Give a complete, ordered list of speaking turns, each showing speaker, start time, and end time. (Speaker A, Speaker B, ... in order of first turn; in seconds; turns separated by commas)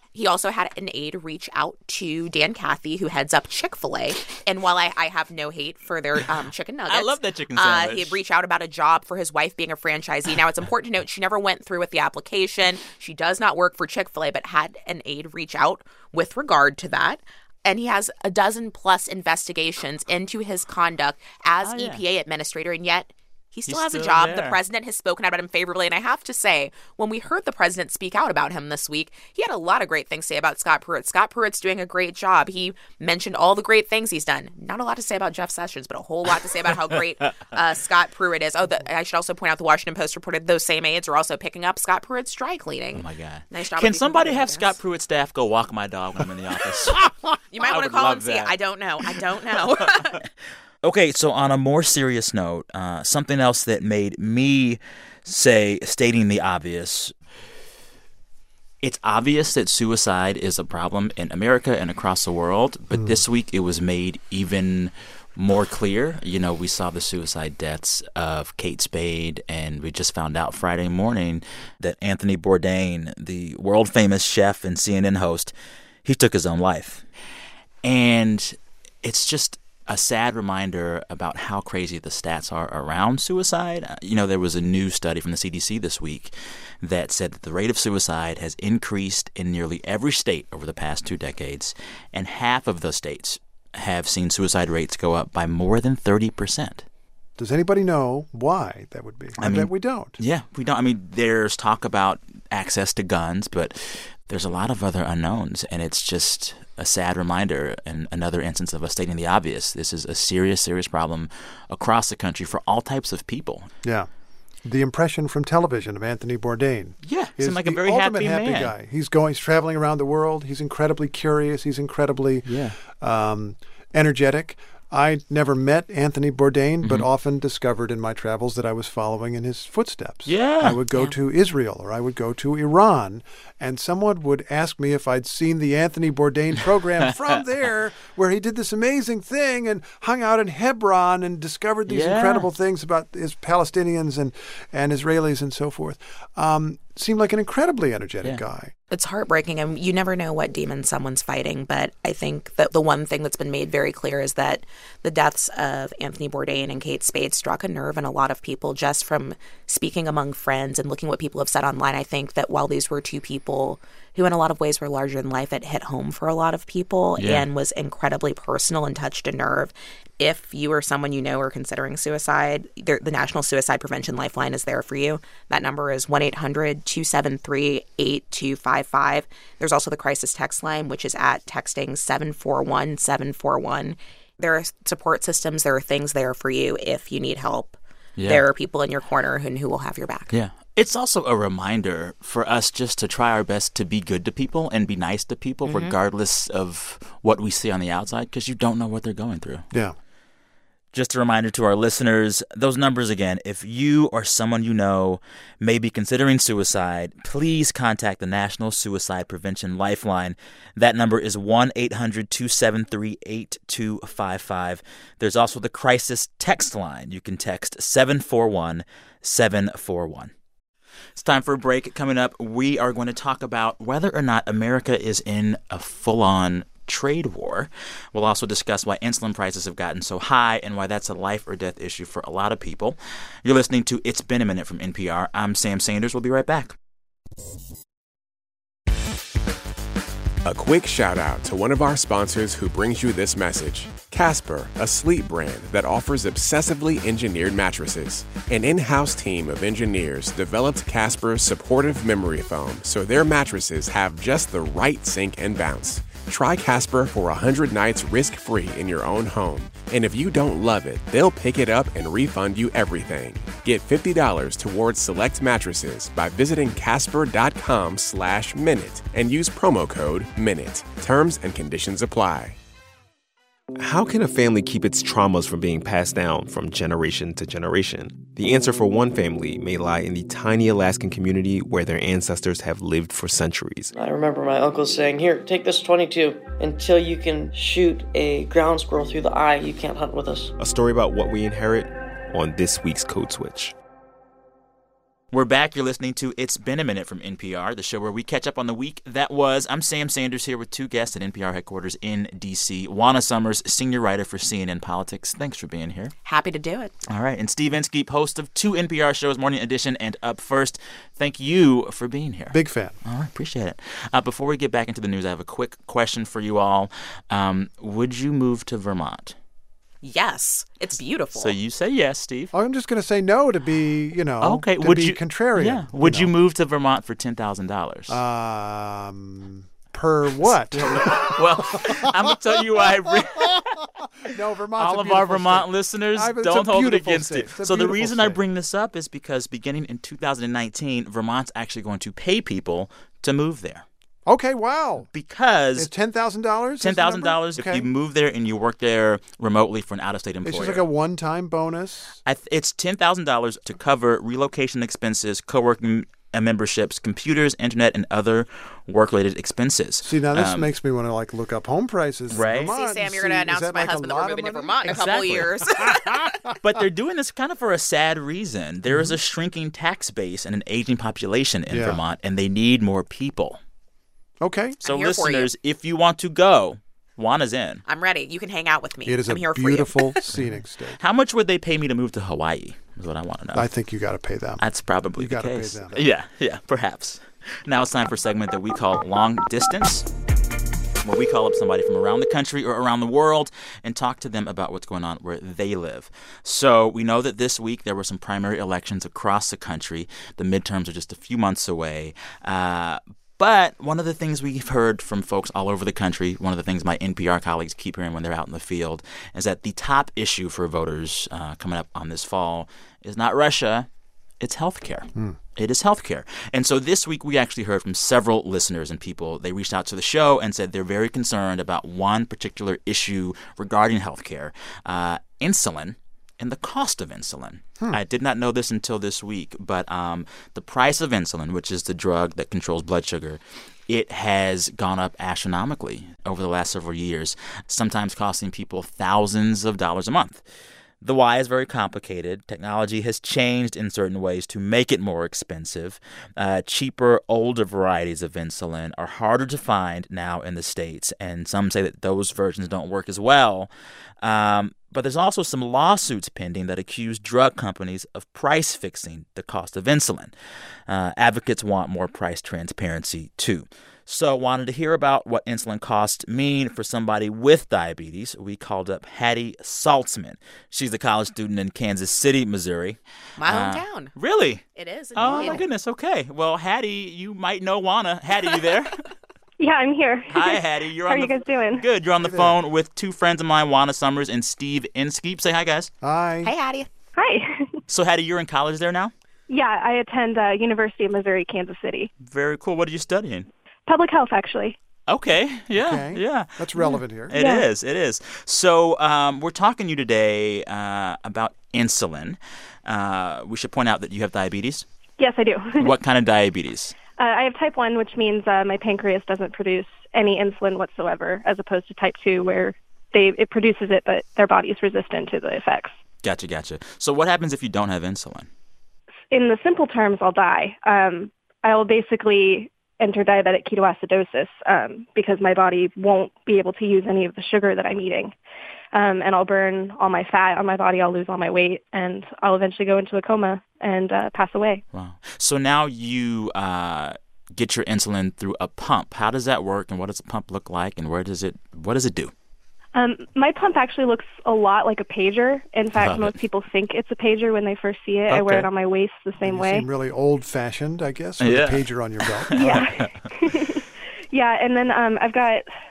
Speaker A: 0.1-44.8, Speaker B: 6.9-8.2, Speaker B: 21.6-22.0, Speaker B: 23.7-24.6, Speaker B: 42.9-48.6, Speaker A: 47.5-50.2, Speaker B: 49.2-50.3, Speaker B: 50.8-57.1, Speaker B: 58.8-75.5, Speaker C: 62.9-63.2, Speaker B: 76.0-77.1, Speaker B: 77.8-96.9, Speaker C: 97.4-100.1, Speaker B: 99.4-113.7, Speaker C: 113.8-114.1, Speaker C: 114.6-148.7, Speaker B: 117.0-118.7, Speaker B: 122.5-122.8, Speaker B: 126.8-127.1, Speaker B: 130.3-130.8, Speaker B: 141.9-142.5, Speaker A: 148.9-190.3, Speaker B: 167.2-167.5, Speaker B: 188.2-188.4, Speaker B: 190.3-199.7, Speaker B: 200.9-220.3, Speaker B: 221.2-236.8, Speaker D: 240.4-272.6, Speaker E: 273.8-283.9, Speaker F: 283.9-290.5, Speaker E: 290.6-293.8, Speaker B: 295.3-306.1, Speaker A: 306.2-306.9, Speaker B: 307.1-319.4, Speaker C: 312.5-312.9, Speaker A: 320.0-321.5, Speaker B: 321.3-322.5, Speaker C: 322.5-326.3, Speaker B: 324.4-328.2, Speaker C: 328.1-332.3, Speaker B: 330.5-333.8, Speaker C: 334.3-338.4, Speaker B: 334.8-343.9, Speaker C: 344.3-345.1, Speaker B: 345.1-345.9, Speaker C: 345.8-347.9, Speaker B: 346.8-350.9, Speaker C: 350.4-352.2, Speaker B: 352.2-360.7, Speaker C: 360.0-365.1, Speaker B: 362.3-362.8, Speaker A: 362.7-366.3, Speaker B: 364.9-365.6, Speaker C: 365.9-366.3, Speaker B: 366.6-373.6, Speaker C: 368.9-369.2, Speaker C: 371.7-372.0, Speaker C: 374.4-374.8, Speaker B: 374.8-377.8, Speaker A: 374.8-375.5, Speaker A: 377.9-380.1, Speaker C: 379.1-381.0, Speaker B: 380.3-383.7, Speaker C: 383.5-384.6, Speaker B: 384.6-390.1, Speaker C: 385.2-386.1, Speaker B: 391.0-413.9, Speaker B: 414.4-440.4, Speaker B: 441.0-453.7, Speaker B: 454.2-460.3, Speaker B: 460.9-474.6, Speaker A: 473.4-474.1, Speaker A: 474.8-475.6, Speaker B: 475.1-478.9, Speaker G: 479.6-481.9, Speaker B: 480.3-485.9, Speaker C: 482.2-482.6, Speaker C: 486.0-486.5, Speaker A: 486.4-486.9, Speaker G: 487.2-487.8, Speaker B: 487.9-489.1, Speaker G: 489.5-492.1, Speaker B: 492.2-493.5, Speaker G: 493.9-494.8, Speaker B: 495.1-504.9, Speaker C: 495.8-497.4, Speaker G: 497.3-497.7, Speaker G: 505.2-505.9, Speaker B: 505.8-507.0, Speaker G: 507.2-516.0, Speaker B: 516.2-518.5, Speaker G: 519.3-528.4, Speaker G: 528.9-534.8, Speaker B: 534.9-542.3, Speaker G: 543.0-549.9, Speaker B: 546.0-546.4, Speaker B: 548.3-548.7, Speaker C: 549.4-552.6, Speaker B: 551.4-553.1, Speaker G: 552.6-555.7